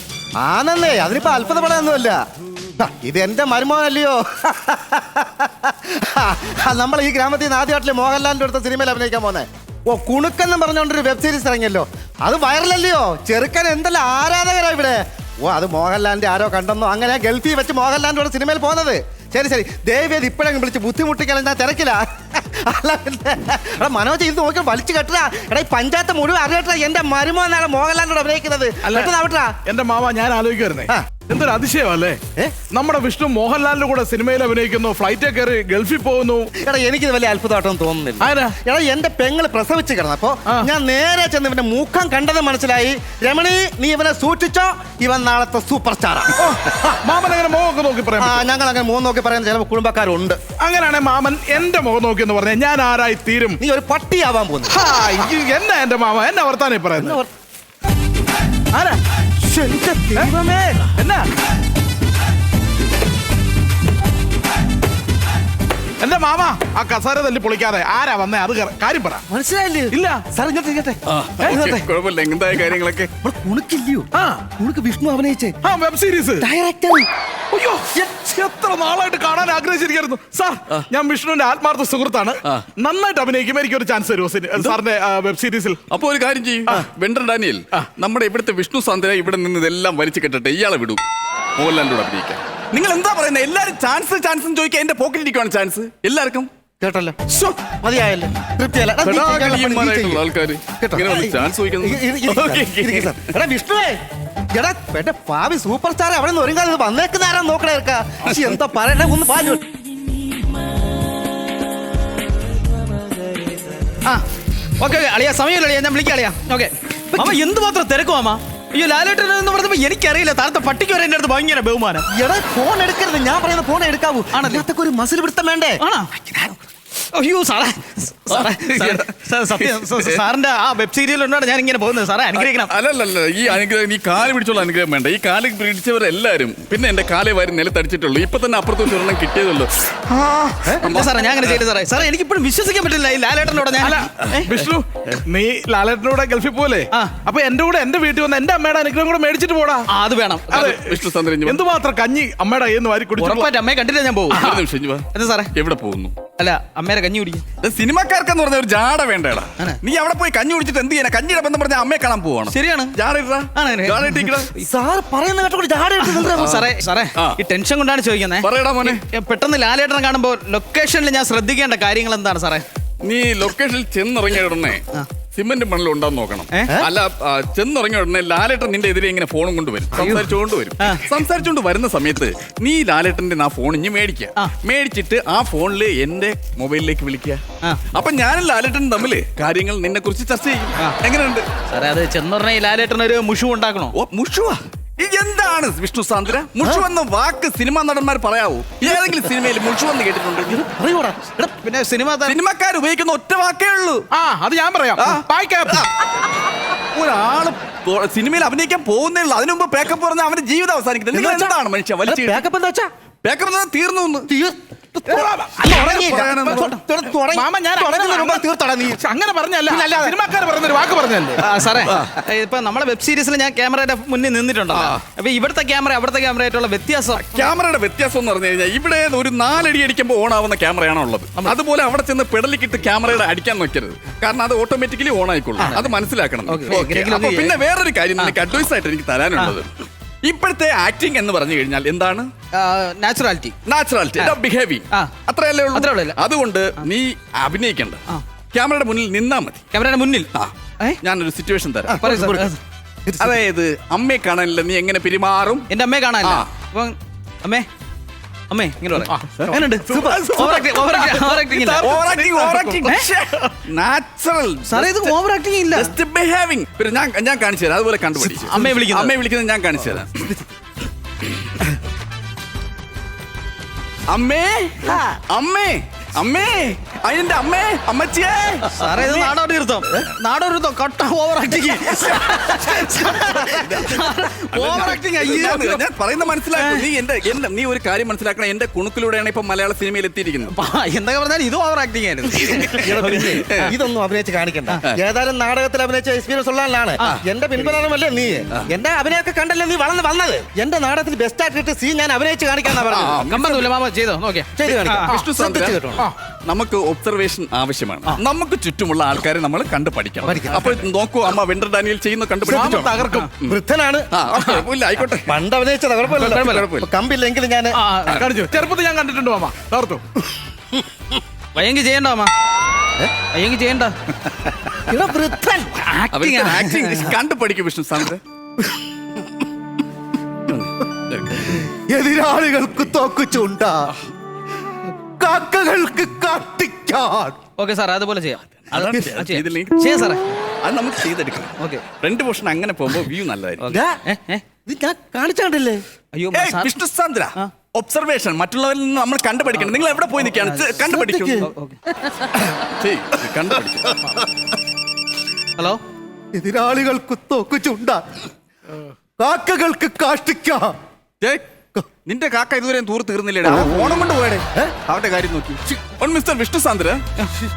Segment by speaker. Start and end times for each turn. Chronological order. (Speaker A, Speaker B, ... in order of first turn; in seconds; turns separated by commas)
Speaker A: 0.4-2.2, Speaker A: 2.8-29.5, Speaker B: 28.8-29.1, Speaker B: 29.6-36.5, Speaker A: 36.6-47.0, Speaker B: 38.2-38.6, Speaker B: 46.4-48.4, Speaker A: 48.2-50.4, Speaker B: 50.6-53.6, Speaker A: 53.6-54.8, Speaker B: 54.7-57.2, Speaker A: 57.0-57.3, Speaker B: 58.7-59.0, Speaker A: 59.4-60.8, Speaker B: 60.9-61.3, Speaker B: 66.0-69.2, Speaker A: 69.3-71.0, Speaker B: 69.9-70.2, Speaker C: 71.1-73.1, Speaker B: 71.4-71.8, Speaker A: 71.5-71.8, Speaker A: 73.2-75.6, Speaker B: 74.1-74.5, Speaker B: 75.6-76.5, Speaker A: 76.4-77.1, Speaker B: 77.5-85.8, Speaker C: 85.9-91.0, Speaker C: 91.5-96.5, Speaker A: 96.8-100.2, Speaker C: 99.0-103.2, Speaker A: 100.8-104.0, Speaker A: 104.5-109.6, Speaker D: 114.8-122.1, Speaker A: 117.1-117.4, Speaker A: 122.1-126.6, Speaker D: 124.3-124.6, Speaker D: 125.8-126.1, Speaker D: 127.1-132.7, Speaker C: 128.3-130.2, Speaker C: 132.3-141.6, Speaker A: 140.5-140.8, Speaker D: 140.8-144.5, Speaker B: 143.8-149.9, Speaker D: 149.9-150.7, Speaker C: 150.5-151.6, Speaker B: 150.5-153.5, Speaker D: 153.2-154.6, Speaker C: 154.3-156.2, Speaker D: 155.1-155.5, Speaker D: 156.4-157.4, Speaker C: 157.6-164.5, Speaker D: 162.5-162.9, Speaker D: 163.5-164.3, Speaker A: 164.6-166.7, Speaker D: 166.1-172.6, Speaker C: 166.4-167.4, Speaker C: 168.4-169.0, Speaker C: 173.0-191.5, Speaker A: 179.9-180.3, Speaker D: 191.7-193.9, Speaker C: 193.9-200.6, Speaker A: 198.8-199.3, Speaker A: 200.4-201.5, Speaker D: 201.6-202.4, Speaker C: 202.2-204.1, Speaker B: 204.1-205.8, Speaker C: 205.0-206.3, Speaker C: 206.9-212.4, Speaker A: 211.1-212.9, Speaker C: 213.2-214.3, Speaker A: 214.3-219.0, Speaker B: 215.1-216.1, Speaker C: 215.7-216.7, Speaker B: 217.2-218.4, Speaker B: 219.0-221.4, Speaker A: 219.7-220.2, Speaker D: 221.4-227.2, Speaker C: 221.8-222.1, Speaker C: 224.7-225.0, Speaker C: 227.2-239.7, Speaker D: 235.6-235.9, Speaker D: 236.4-237.6, Speaker C: 240.2-242.3, Speaker D: 242.5-243.5, Speaker C: 243.6-249.7, Speaker D: 245.7-246.2, Speaker D: 249.7-250.3, Speaker C: 250.3-252.1, Speaker A: 251.9-252.5, Speaker D: 252.0-252.6, Speaker A: 253.1-253.4, Speaker C: 253.2-255.7, Speaker D: 255.7-257.7, Speaker C: 256.2-256.5, Speaker D: 258.5-261.9, Speaker B: 259.1-259.5, Speaker C: 259.3-265.2, Speaker A: 259.8-260.5, Speaker B: 262.0-262.7, Speaker D: 262.8-263.1, Speaker D: 264.7-265.9, Speaker C: 265.7-270.3, Speaker D: 268.3-269.1, Speaker C: 274.1-279.2, Speaker D: 278.7-285.8, Speaker A: 282.8-283.8, Speaker C: 283.5-290.5, Speaker D: 286.5-286.8, Speaker D: 290.5-293.7, Speaker A: 292.7-303.3, Speaker C: 302.8-303.7, Speaker D: 303.2-305.1, Speaker A: 304.6-306.1, Speaker C: 305.1-305.8, Speaker C: 306.5-313.6, Speaker A: 310.2-310.9, Speaker B: 312.4-313.3, Speaker A: 312.5-314.1, Speaker C: 314.1-315.3, Speaker A: 315.2-317.7, Speaker D: 316.2-316.6, Speaker C: 316.2-316.9, Speaker D: 317.8-318.2, Speaker B: 318.1-320.0, Speaker D: 321.5-322.3, Speaker D: 323.3-323.9, Speaker A: 324.9-325.8, Speaker D: 326.0-326.7, Speaker C: 326.1-328.2, Speaker C: 330.5-331.6, Speaker A: 331.6-333.9, Speaker A: 335.2-337.4, Speaker D: 337.6-340.2, Speaker C: 338.7-339.9, Speaker A: 338.9-339.2, Speaker C: 340.6-343.7, Speaker D: 341.6-341.8, Speaker D: 343.6-344.4, Speaker A: 343.7-344.0, Speaker A: 344.6-345.8, Speaker D: 346.1-346.7, Speaker C: 346.3-351.5, Speaker D: 350.3-350.8, Speaker A: 350.9-351.5, Speaker D: 351.4-351.8, Speaker C: 352.6-354.1, Speaker A: 356.3-358.0, Speaker A: 359.2-360.7, Speaker C: 362.0-367.0, Speaker A: 363.4-363.8